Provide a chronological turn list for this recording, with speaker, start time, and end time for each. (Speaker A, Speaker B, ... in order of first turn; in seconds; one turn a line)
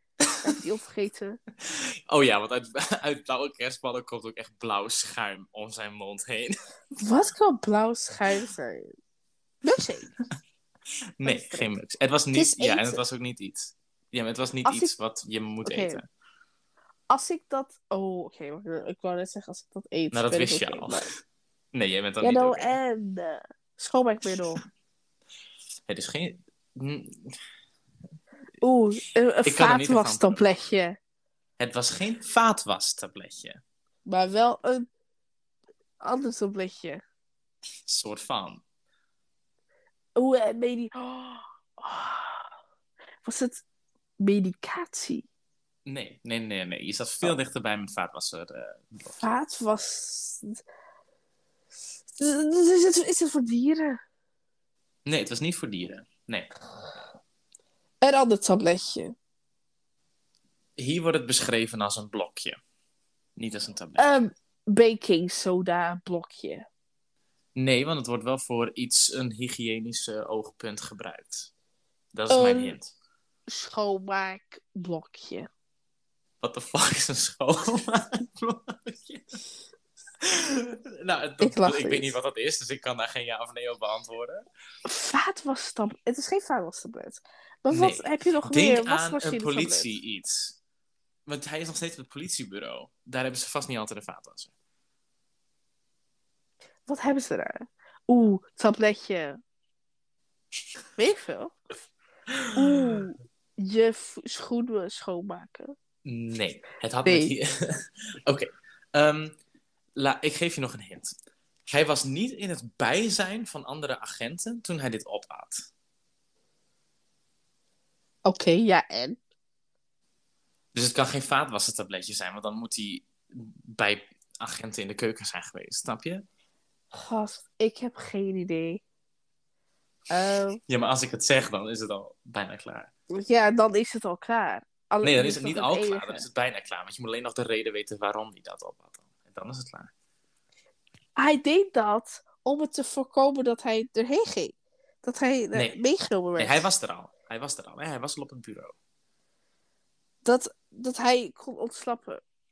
Speaker A: 0.4-1.4
Speaker B: 1.7-6.5
Speaker A: 7.0-8.9
Speaker A: 9.6-10.1
Speaker B: 11.2-16.1
Speaker A: 11.2-11.8
Speaker A: 12.3-13.0
Speaker A: 14.6-14.9
Speaker A: 15.6-16.0
Speaker A: 17.1-21.1
Speaker B: 20.1-21.1
Speaker B: 21.7-22.8
Speaker A: 22.2-24.6
Speaker B: 25.9-27.4
Speaker A: 28.6-31.0
Speaker B: 29.4-30.5
Speaker B: 31.6-33.6
Speaker A: 34.0-34.9
Speaker A: 36.0-37.0
Speaker B: 37.9-38.6
Speaker A: 40.1-42.5
Speaker A: 43.2-43.6
Speaker A: 44.2-45.2
Speaker B: 45.9-49.2
Speaker A: 49.2-50.6
Speaker A: 52.2-54.0
Speaker B: 55.0-56.5
Speaker A: 58.0-59.1
Speaker B: 60.8-62.5
Speaker B: 63.4-64.1
Speaker A: 64.0-66.7
Speaker B: 67.5-71.5
Speaker B: 72.1-72.9
Speaker A: 72.3-72.8
Speaker A: 73.5-75.5
Speaker B: 76.4-79.4
Speaker B: 80.2-84.4
Speaker A: 81.4-82.1
Speaker A: 84.8-89.9
Speaker B: 87.7-90.6
Speaker B: 91.2-94.5
Speaker A: 96.8-99.4
Speaker A: 101.0-101.6
Speaker B: 102.4-102.9
Speaker A: 102.5-105.7
Speaker B: 106.0-109.4
Speaker A: 107.0-107.3
Speaker B: 110.0-111.2
Speaker B: 111.7-115.6
Speaker A: 118.2-119.2
Speaker B: 120.7-126.2
Speaker A: 126.9-128.8
Speaker A: 130.1-130.6
Speaker B: 130.7-132.9
Speaker A: 133.1-136.2
Speaker B: 135.0-139.9
Speaker A: 141.2-146.7
Speaker B: 145.5-145.8
Speaker B: 146.4-148.7
Speaker A: 150.2-152.2